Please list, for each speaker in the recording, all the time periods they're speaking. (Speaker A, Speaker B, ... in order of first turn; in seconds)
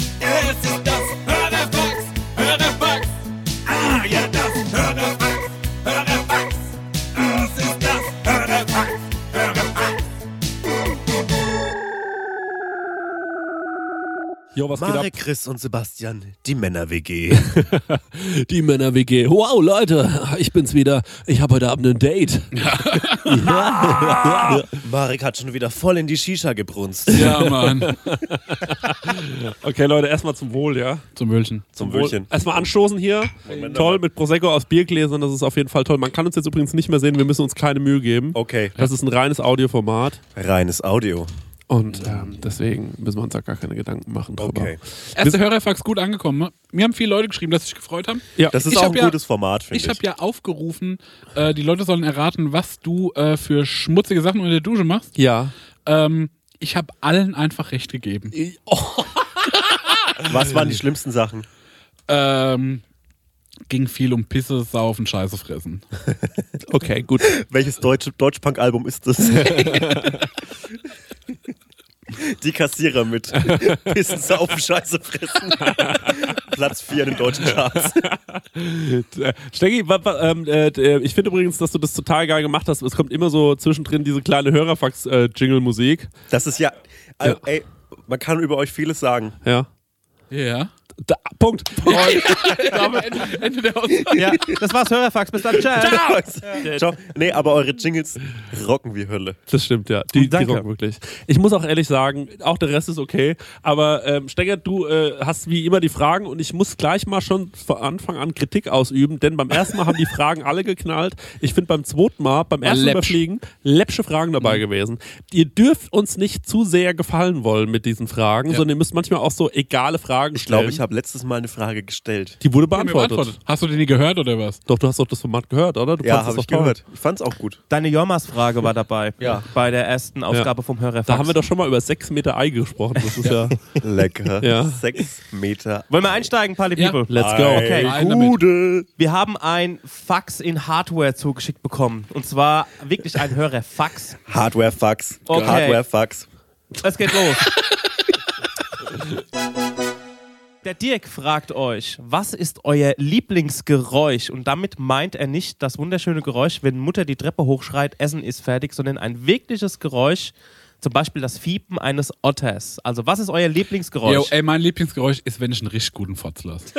Speaker A: 0.2-3.1, 3.7-6.5, 7.2-9.8
Speaker B: 14.5-15.1, 17.6-24.7, 27.1-31.1, 31.8-40.2, 41.7-45.4, 55.1-55.5, 58.3-59.5, 66.7-67.4, 69.4-70.2, 73.4-73.8, 75.6-76.3, 77.7-86.1, 91.0-93.4, 96.6-96.9, 99.5-120.8, 122.4-123.3, 124.7-126.8, 131.1-133.6, 134.4-134.8, 137.1-137.8
Speaker C: 14.7-17.7, 23.4-27.4, 31.8-32.3, 33.4-34.0, 38.3-38.8, 40.3-41.3, 44.4-44.8, 48.5-50.0, 60.2-61.5, 67.3-70.2, 72.1-78.1, 86.3-89.4, 95.8-99.4, 120.3-122.4, 126.0-127.6, 129.2-129.4, 133.8-135.9, 137.1-138.9, 144.2-146.3
Speaker D: 22.6-24.1, 27.1-28.7, 31.1-31.7, 33.5-33.8, 45.1-49.2, 49.7-55.1, 55.9-58.3, 62.1-62.8, 63.7-65.8, 90.3-90.7, 91.8-94.4, 112.6-113.2, 122.7-124.6, 137.7-138.4, 164.0-166.7
Speaker E: 94.1-96.0, 100.1-100.6, 127.7-131.3, 135.9-137.9, 139.0-144.2, 145.3-145.8, 146.8-147.4, 150.6-164.3